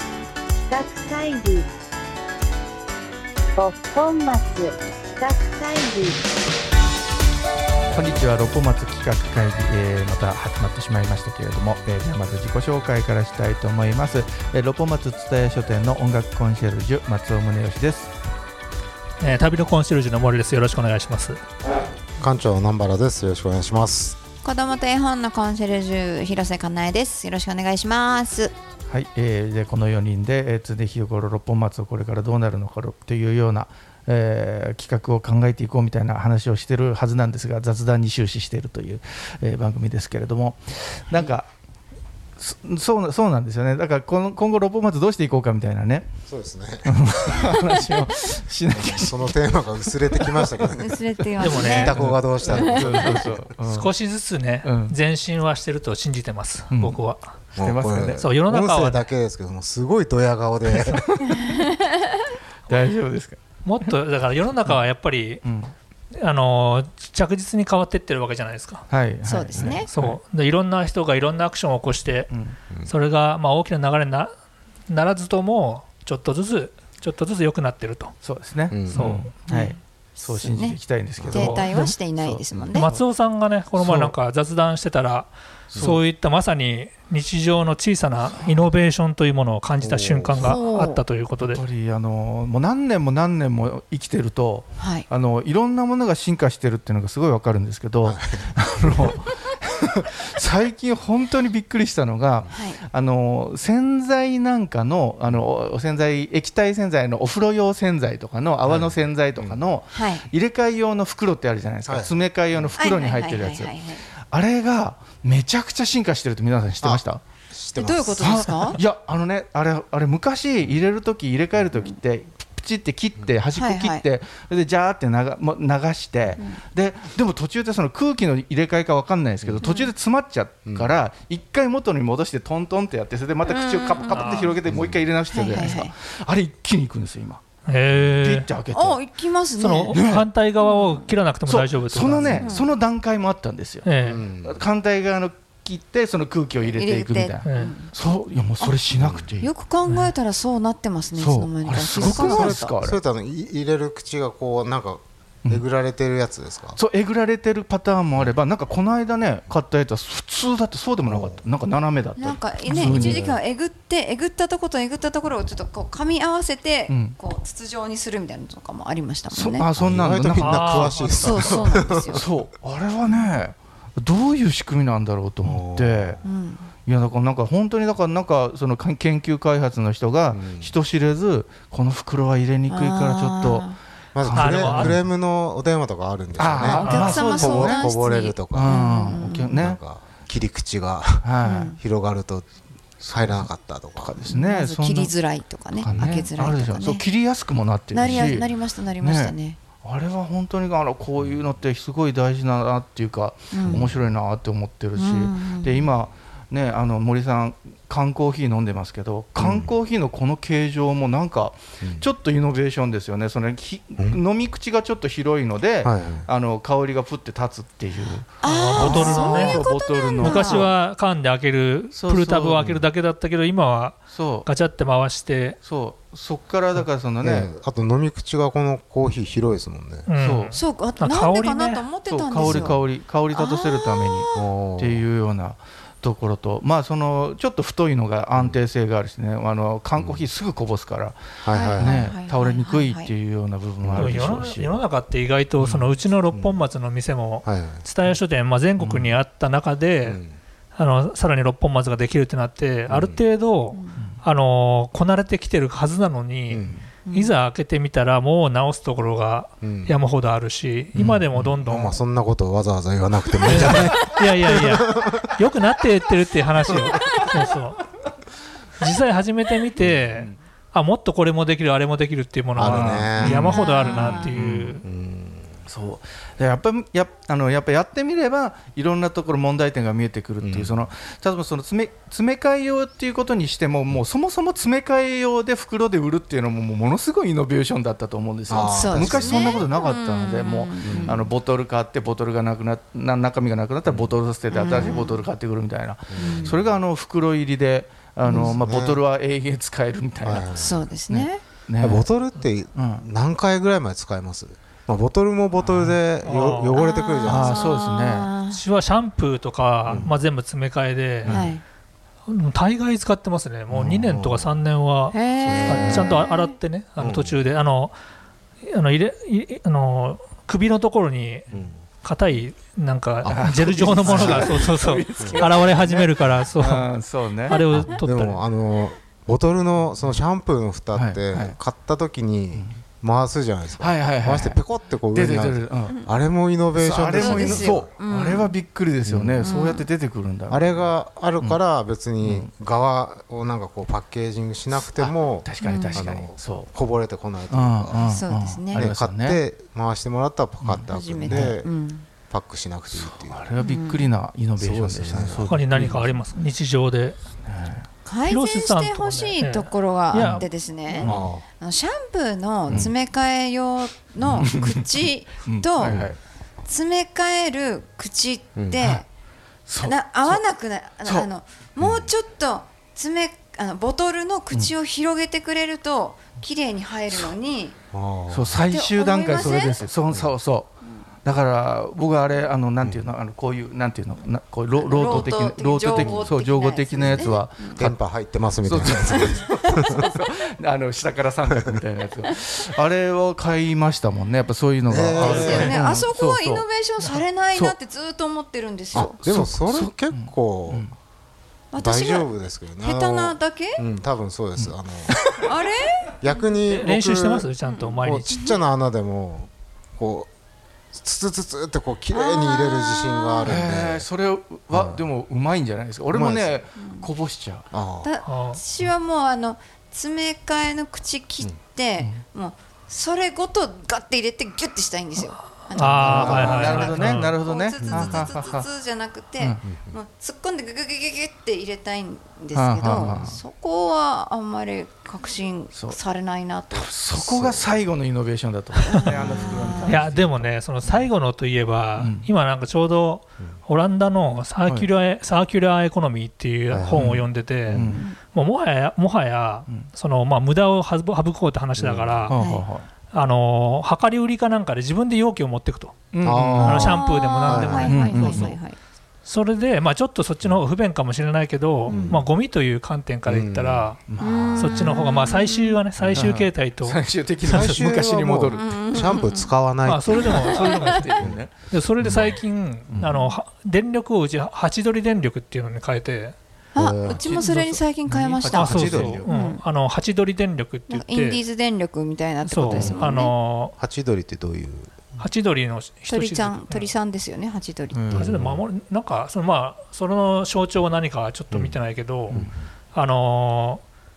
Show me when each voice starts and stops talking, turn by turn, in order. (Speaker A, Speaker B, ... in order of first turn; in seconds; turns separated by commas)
Speaker A: 0.7-1.7, Speaker A: 3.6-6.2, Speaker B: 7.9-18.1, Speaker C: 19.2-21.4, Speaker D: 22.2-24.2, Speaker E: 24.4-28.5, Speaker B: 28.9-41.5, Speaker B: 42.4-46.1, Speaker D: 46.3-47.5, Speaker B: 46.9-50.7, Speaker D: 48.7-53.5, Speaker E: 50.8-53.1, Speaker C: 51.4-52.0, Speaker B: 51.5-53.9, Speaker C: 53.6-57.3, Speaker B: 54.6-55.0, Speaker B: 56.7-57.0, Speaker B: 57.5-58.2, Speaker D: 57.6-61.0, Speaker C: 58.2-59.1, Speaker B: 60.7-61.5, Speaker E: 61.3-62.2, Speaker B: 62.7-63.9, Speaker C: 63.6-65.4, Speaker B: 65.4-65.7, Speaker C: 66.2-68.8, Speaker B: 68.9-70.2, Speaker E: 69.3-69.9, Speaker D: 69.6-69.8, Speaker C: 69.9-72.3, Speaker B: 72.3-72.6, Speaker C: 72.8-74.3, Speaker C: 74.9-78.2, Speaker B: 78.2-82.9, Speaker D: 78.7-79.1, Speaker C: 78.9-79.3, Speaker E: 79.5-82.9, Speaker D: 81.2-81.7, Speaker C: 81.4-81.8, Speaker C: 82.8-91.6, Speaker B: 83.8-84.1, Speaker B: 85.7-86.0, Speaker B: 88.3-88.6, Speaker D: 89.8-90.5, Speaker E: 90.4-91.0, Speaker B: 91.4-113.8, Speaker E: 94.8-95.1, Speaker D: 98.0-99.2, Speaker E: 102.5-102.8, Speaker D: 108.7-109.6, Speaker E: 109.9-110.3, Speaker D: 111.8-112.8, Speaker E: 112.8-114.0, Speaker B: 114.3-117.2, Speaker D: 116.8-118.8, Speaker E: 117.8-118.8, Speaker B: 118.2-137.4, Speaker E: 123.5-124.0, Speaker E: 129.6-129.9, Speaker D: 130.7-131.0, Speaker E: 133.4-134.5, Speaker C: 134.1-134.5, Speaker D: 134.7-135.8, Speaker E: 135.3-135.9, Speaker C: 137.7-138.5, Speaker B: 138.2-139.0, Speaker E: 138.7-140.0, Speaker C: 139.6-142.4, Speaker B: 139.9-140.3, Speaker E: 140.6-141.1, Speaker B: 141.5-150.1, Speaker D: 142.1-142.5, Speaker E: 142.4-142.7, Speaker C: 143.8-144.2, Speaker D: 144.0-144.6, Speaker E: 146.6-147.9, Speaker C: 147.4-147.7, Speaker D: 148.9-149.3, Speaker E: 149.4-152.7, Speaker B: 151.2-153.0, Speaker D: 151.9-156.8, Speaker B: 156.8-163.3, Speaker D: 161.1-161.4, Speaker E: 162.2-169.7, Speaker D: 162.7-163.4, Speaker B: 166.9-167.2, Speaker B: 169.3-176.2, Speaker D: 169.7-172.3, Speaker C: 170.4-171.1, Speaker E: 171.2-172.2, Speaker E: 173.1-173.3, Speaker D: 175.4-176.2, Speaker E: 176.2-176.7, Speaker B: 176.8-185.0, Speaker D: 180.3-180.7, Speaker E: 182.7-183.8, Speaker D: 184.2-192.5, Speaker C: 184.3-185.0, Speaker B: 186.4-187.9, Speaker E: 186.6-189.6, Speaker C: 186.8-187.2, Speaker B: 188.5-189.8, Speaker B: 191.2-191.8, Speaker E: 191.4-191.8, Speaker B: 193.0-195.1, Speaker D: 193.1-194.2, Speaker E: 194.2-197.1, Speaker B: 195.8-220.7, Speaker D: 195.9-196.2, Speaker E: 197.9-199.6, Speaker E: 203.5-203.8, Speaker D: 203.7-203.9, Speaker E: 205.0-205.9, Speaker D: 209.4-209.8, Speaker D: 211.8-212.1, Speaker D: 215.8-216.3, Speaker E: 218.4-220.7, Speaker C: 218.4-219.6, Speaker D: 218.8-219.7, Speaker C: 220.2-225.6, Speaker B: 221.9-222.6, Speaker D: 222.6-222.9, Speaker B: 224.1-224.5, Speaker B: 225.6-227.5, Speaker D: 227.2-230.1, Speaker C: 230.1-231.9, Speaker B: 230.2-230.6, Speaker E: 230.5-232.8, Speaker B: 232.1-244.8, Speaker D: 232.4-232.8, Speaker E: 233.3-234.4, Speaker D: 234.3-235.1, Speaker D: 240.0-240.2, Speaker D: 241.4-242.1, Speaker E: 241.5-243.1, Speaker D: 243.8-244.4, Speaker C: 244.0-250.2, Speaker B: 245.6-245.9, Speaker D: 246.3-246.6, Speaker D: 247.4-247.8, Speaker B: 248.8-249.2, Speaker D: 250.1-250.4, Speaker C: 250.8-262.0, Speaker D: 252.9-253.2, Speaker E: 253.7-254.0, Speaker D: 256.5-256.8, Speaker E: 257.1-257.3, Speaker D: 259.6-259.9, Speaker D: 260.9-265.4, Speaker C: 263.5-267.8, Speaker B: 263.6-263.9, Speaker C: 268.8-274.9, Speaker D: 269.8-270.1, Speaker D: 272.6-273.6, Speaker B: 272.6-274.7, Speaker E: 273.5-274.3, Speaker D: 274.3-275.6, Speaker B: 275.7-300.5, Speaker D: 280.4-280.9, Speaker D: 288.5-289.6, Speaker E: 288.6-291.3, Speaker D: 290.8-291.2, Speaker D: 293.9-294.1, Speaker E: 294.5-295.2, Speaker D: 296.1-296.8, Speaker E: 296.2-296.6, Speaker E: 298.2-298.6, Speaker D: 298.3-299.0, Speaker D: 300.2-300.8, Speaker E: 300.6-301.4, Speaker B: 301.1-302.1, Speaker D: 301.8-307.8, Speaker B: 302.8-303.1, Speaker B: 305.6-306.0, Speaker C: 306.2-306.8, Speaker E: 306.8-308.6, Speaker B: 307.2-308.3, Speaker C: 308.5-311.4, Speaker D: 309.9-310.1, Speaker B: 311.2-311.5, Speaker E: 311.3-311.6, Speaker C: 312.3-317.9, Speaker D: 313.7-314.6, Speaker E: 315.1-316.5, Speaker D: 315.4-316.2, Speaker D: 317.0-317.4, Speaker C: 318.6-321.5, Speaker D: 321.5-321.8, Speaker C: 322.0-326.9, Speaker D: 323.2-324.6, Speaker B: 323.3-327.6, Speaker D: 325.2-325.4, Speaker C: 327.5-328.4, Speaker D: 327.7-337.9, Speaker B: 330.9-331.6, Speaker B: 333.8-334.6, Speaker B: 335.1-336.0, Speaker B: 336.8-340.9, Speaker E: 337.1-338.6, Speaker D: 339.1-339.6, Speaker E: 339.4-339.9, Speaker D: 340.5-348.1, Speaker B: 342.2-342.5, Speaker B: 344.7-346.7, Speaker E: 345.6-346.0, Speaker B: 347.5-349.4, Speaker E: 348.0-348.9, Speaker D: 348.7-351.7, Speaker B: 350.6-351.6, Speaker E: 350.9-352.1, Speaker D: 352.3-353.5, Speaker B: 352.9-356.2, Speaker E: 353.6-354.1, Speaker D: 354.6-355.9, Speaker C: 355.5-357.2, Speaker B: 357.4-357.9, Speaker E: 358.1-366.0, Speaker C: 358.3-360.5, Speaker B: 360.1-361.3, Speaker D: 361.0-361.5, Speaker B: 364.2-364.9, Speaker B: 365.4-366.2, Speaker D: 365.8-366.1, Speaker E: 366.6-369.1, Speaker B: 368.8-369.0, Speaker B: 369.7-370.4, Speaker E: 369.8-377.8, Speaker B: 371.0-371.3, Speaker D: 371.8-372.1, Speaker D: 377.9-378.6, Speaker B: 378.3-388.0, Speaker E: 378.7-379.9, Speaker E: 384.7-387.9, Speaker D: 385.0-385.4, Speaker D: 385.9-386.3, Speaker D: 387.0-390.1, Speaker B: 388.6-397.8, Speaker E: 389.1-390.2, Speaker D: 391.5-391.8, Speaker D: 394.9-395.8, Speaker E: 395.2-399.2, Speaker D: 398.9-400.9, Speaker B: 399.0-400.9, Speaker E: 401.7-402.3, Speaker D: 401.8-405.2, Speaker E: 402.8-403.8, Speaker E: 405.3-406.5, Speaker D: 406.2-407.5, Speaker C: 406.7-408.4, Speaker E: 407.7-408.6, Speaker D: 408.0-410.3, Speaker D: 410.9-414.1, Speaker E: 412.1-413.5, Speaker B: 413.4-417.7, Speaker D: 414.7-415.0, Speaker D: 416.1-416.6, Speaker E: 416.8-417.1, Speaker D: 417.7-418.1, Speaker E: 418.0-436.9, Speaker C: 418.2-418.6, Speaker C: 425.7-427.4, Speaker B: 425.8-428.7, Speaker D: 426.0-426.8, Speaker D: 427.8-428.3, Speaker D: 429.6-430.0, Speaker B: 432.5-433.4, Speaker D: 432.9-433.3, Speaker B: 435.7-436.0, Speaker B: 436.7-440.5, Speaker D: 437.1-437.7, Speaker E: 438.9-440.0, Speaker D: 439.4-439.7, Speaker C: 439.9-452.4, Speaker B: 442.0-442.3, Speaker D: 446.7-447.1, Speaker B: 446.9-448.1, Speaker D: 447.7-448.0, Speaker E: 447.9-448.2, Speaker D: 451.8-452.3, Speaker B: 452.3-452.9, Speaker E: 452.4-452.7, Speaker C: 453.1-456.1, Speaker B: 456.1-457.0, Speaker D: 456.2-458.3, Speaker C: 456.6-458.5, Speaker E: 456.8-458.8, Speaker B: 457.8-458.6, Speaker C: 459.3-464.0, Speaker D: 461.9-462.2, Speaker D: 463.3-464.9, Speaker B: 464.1-464.5, Speaker E: 464.2-465.8, Speaker C: 464.6-467.8, Speaker D: 466.0-466.3, Speaker B: 466.1-469.0, Speaker D: 467.4-470.6, Speaker E: 468.5-469.5, Speaker C: 469.9-476.4, Speaker E: 470.2-471.1, Speaker B: 470.3-472.3, Speaker E: 473.0-473.3, Speaker E: 476.7-479.6, Speaker D: 476.8-477.2, Speaker B: 477.0-479.3, Speaker C: 478.5-481.4, Speaker D: 478.7-479.1, Speaker E: 480.9-483.3, Speaker C: 482.4-483.8, Speaker B: 482.7-483.0, Speaker D: 482.7-483.0, Speaker D: 483.8-485.0, Speaker C: 485.2-486.9, Speaker E: 486.1-488.1, Speaker B: 487.9-488.3, Speaker D: 488.1-488.6, Speaker C: 488.2-492.4, Speaker D: 491.5-491.8, Speaker D: 492.3-492.6, Speaker C: 492.9-493.8